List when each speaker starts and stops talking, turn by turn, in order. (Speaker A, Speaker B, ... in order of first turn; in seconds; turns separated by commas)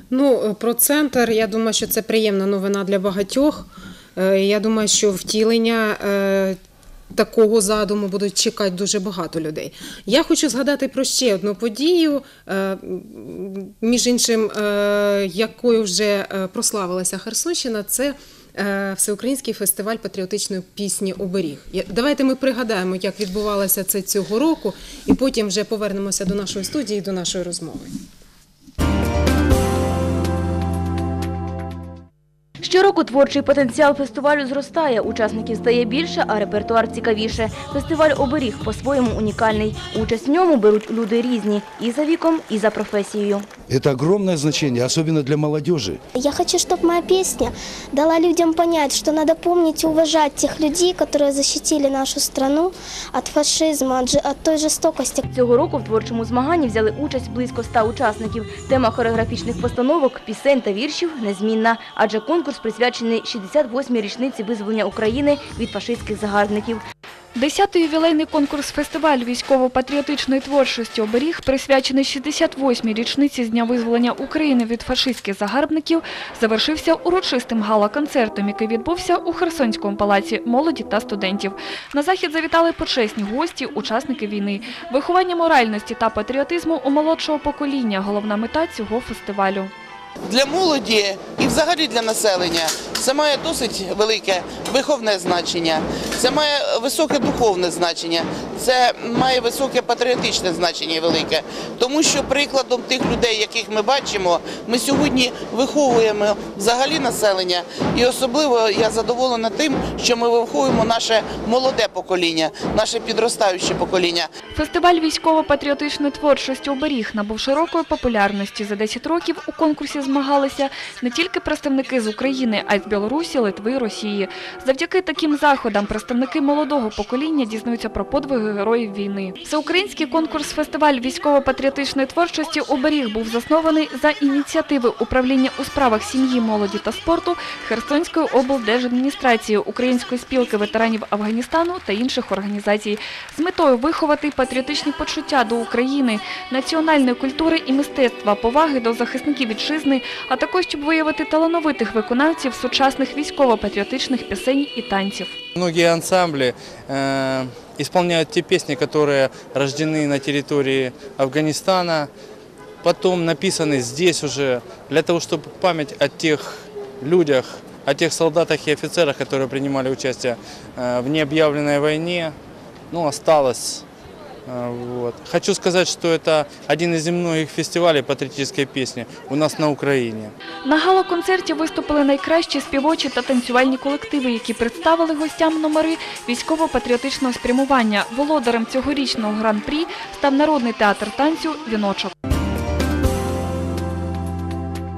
Speaker A: 0.1-6.6, Speaker A: 7.1-27.9, Speaker B: 32.6-43.5, Speaker C: 43.7-46.0, Speaker D: 46.2-55.2, Speaker B: 55.3-66.8, Speaker E: 67.3-89.7, Speaker F: 90.3-114.3, Speaker E: 114.5-155.3, Speaker G: 155.6-162.1, Speaker G: 162.8-172.4, Speaker G: 172.9-173.8, Speaker G: 174.5-180.3, Speaker E: 180.6-192.1